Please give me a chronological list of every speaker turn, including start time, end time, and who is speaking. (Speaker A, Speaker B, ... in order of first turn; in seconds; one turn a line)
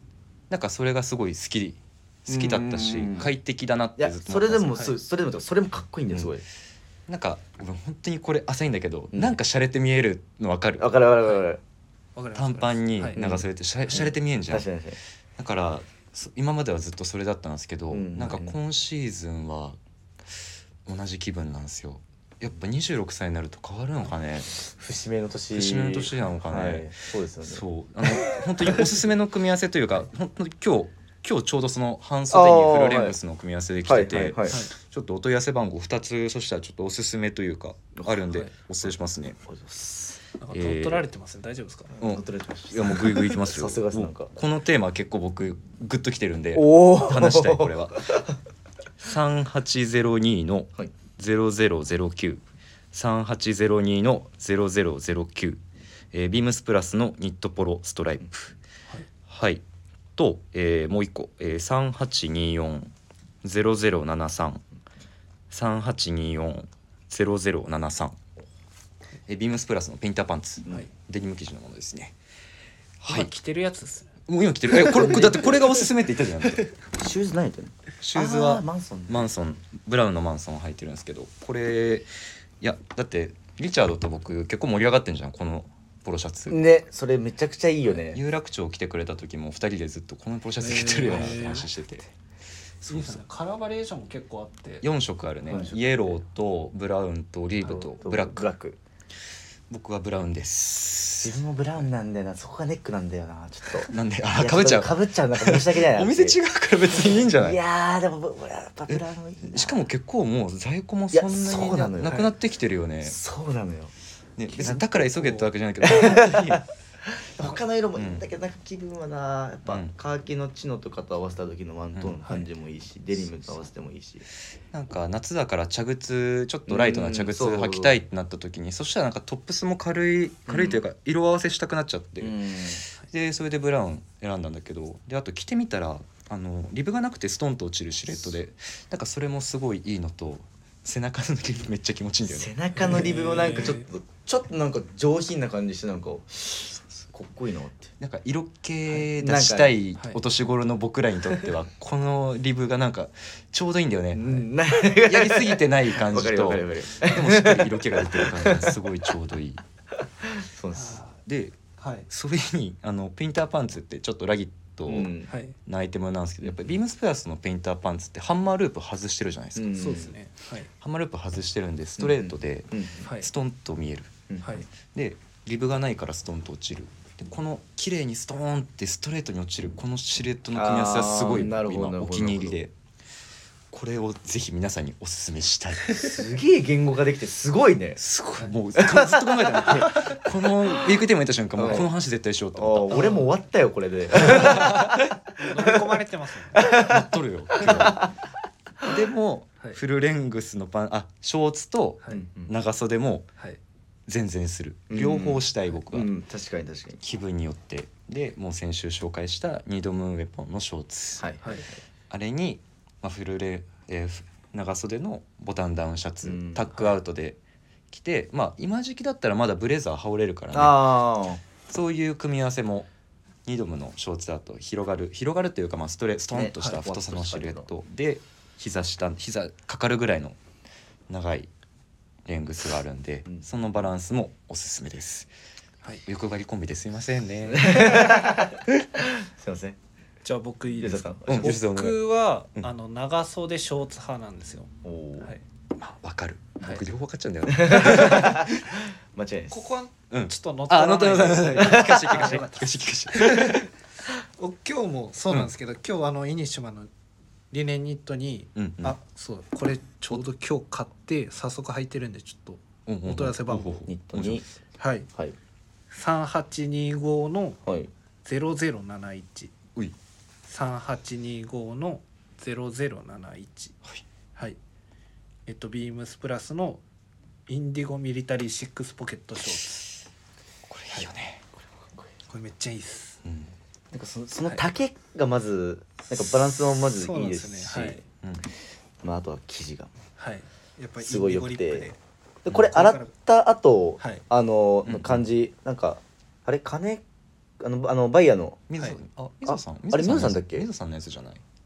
Speaker A: 0.5-4.7
Speaker B: 2.3-3.3
Speaker B: 4.0-6.4
Speaker A: 7.1-10.9
Speaker B: 10.8-11.6
Speaker C: 12.2-13.2
Speaker A: 12.3-14.7
Speaker B: 13.2-15.0
Speaker A: 15.4-19.8
Speaker B: 17.9-18.6
Speaker A: 20.9-24.6
Speaker B: 24.6-28.9
Speaker A: 25.5-26.9
Speaker A: 27.4-39.4
Speaker B: 32.3-33.2
Speaker B: 33.9-34.6
Speaker B: 39.5-40.2
Speaker C: 40.4-42.0
Speaker A: 40.5-41.1
Speaker B: 42.0-44.3
Speaker A: 42.0-48.1
Speaker B: 46.5-48.3
Speaker A: 49.0-52.4
Speaker A: 52.9-55.6
Speaker A: 56.1-58.5
Speaker A: 59.3-59.6
Speaker A: 60.2-64.6
Speaker A: 65.5-68.2
Speaker A: 69.3-72.1
Speaker A: 73.0-73.3
Speaker C: 73.1-74.1
Speaker A: 74.3-76.7
Speaker C: 74.9-75.5
Speaker B: 76.9-79.3
Speaker A: 78.0-82.1
Speaker A: 82.6-86.6
Speaker B: 86.5-88.2
Speaker A: 88.0-92.1
Speaker C: 90.6-91.7
Speaker A: 92.8-93.2
Speaker C: 92.8-94.8
Speaker A: 94.8-98.5
Speaker B: 95.5-96.2
Speaker B: 97.6-98.8
Speaker A: 99.7-101.4
Speaker B: 101.2-106.4
Speaker A: 103.8-107.6
Speaker B: 106.9-109.8
Speaker A: 108.9-113.2
Speaker B: 111.1-112.3
Speaker B: 113.0-113.9
Speaker A: 114.4-116.5
Speaker C: 114.5-115.5
Speaker B: 114.6-114.8
Speaker B: 115.8-124.2
Speaker A: 118.0-118.2
Speaker A: 119.7-119.9
Speaker A: 121.9-122.2
Speaker A: 124.7-132.4
Speaker B: 126.7-128.0
Speaker B: 130.5-130.8
Speaker B: 132.2-132.8
Speaker A: 133.0-143.0
Speaker B: 142.3-147.9
Speaker C: 142.8-143.8
Speaker A: 148.0-159.6
Speaker B: 148.9-149.8
Speaker B: 154.1-158.8
Speaker B: 160.2-161.0
Speaker C: 160.7-161.2
Speaker A: 161.2-161.6
Speaker C: 161.8-162.1
Speaker A: 162.1-165.1
Speaker B: 164.9-165.3
Speaker C: 165.3-165.6
Speaker A: 165.7-169.7
Speaker B: 169.6-170.1
Speaker C: 169.7-170.7
Speaker A: 170.8-182.7
Speaker B: 172.0-173.1
Speaker C: 173.0-173.3
Speaker B: 180.5-182.6
Speaker A: 183.7-186.1
Speaker B: 186.0-188.0
Speaker A: 188.0-193.1
Speaker B: 188.7-189.9
Speaker C: 189.9-190.2
Speaker B: 190.7-190.9
Speaker B: 191.6-191.9
Speaker B: 192.6-196.0
Speaker C: 192.9-193.3
Speaker A: 194.1-195.1
Speaker C: 195.4-196.7
Speaker B: 196.5-198.1
Speaker A: 196.8-198.1
Speaker A: 198.8-203.3
Speaker B: 202.1-202.5
Speaker A: 204.1-206.1
Speaker B: 204.9-207.0
Speaker A: 207.0-211.4
Speaker B: 211.2-211.7
Speaker A: 212.1-217.4
Speaker B: 216.2-216.9
Speaker A: 217.9-221.0
Speaker B: 220.5-221.4
Speaker A: 221.7-222.9
Speaker A: 223.5-230.4
Speaker B: 226.3-227.7
Speaker A: 231.1-231.5
Speaker A: 232.3-235.3
Speaker A: 236.1-238.1
Speaker B: 237.5-239.8
Speaker C: 240.2-245.4
Speaker B: 240.8-241.6
Speaker A: 241.3-242.0
Speaker B: 244.8-245.3
Speaker A: 245.8-248.8
Speaker B: 247.5-249.7
Speaker C: 249.5-256.9
Speaker A: 250.1-253.7
Speaker B: 251.6-252.2
Speaker C: 257.5-263.8
Speaker A: 258.6-259.0
Speaker A: 262.9-264.4
Speaker B: 263.8-264.5
Speaker C: 264.8-265.1
Speaker C: 265.9-267.6
Speaker B: 267.7-267.9
Speaker C: 268.2-269.5
Speaker C: 270.5-273.8
Speaker C: 275.5-276.8
Speaker C: 277.5-279.8
Speaker A: 280.7-281.4
Speaker C: 282.3-283.2
Speaker A: 283.2-283.5
Speaker B: 283.9-288.0
Speaker C: 286.9-288.0
Speaker B: 289.0-289.9
Speaker C: 290.2-292.0
Speaker B: 291.0-291.9
Speaker B: 292.4-297.0
Speaker C: 292.6-293.1
Speaker A: 294.9-295.2
Speaker B: 297.6-298.6
Speaker A: 298.7-301.4
Speaker B: 299.5-300.7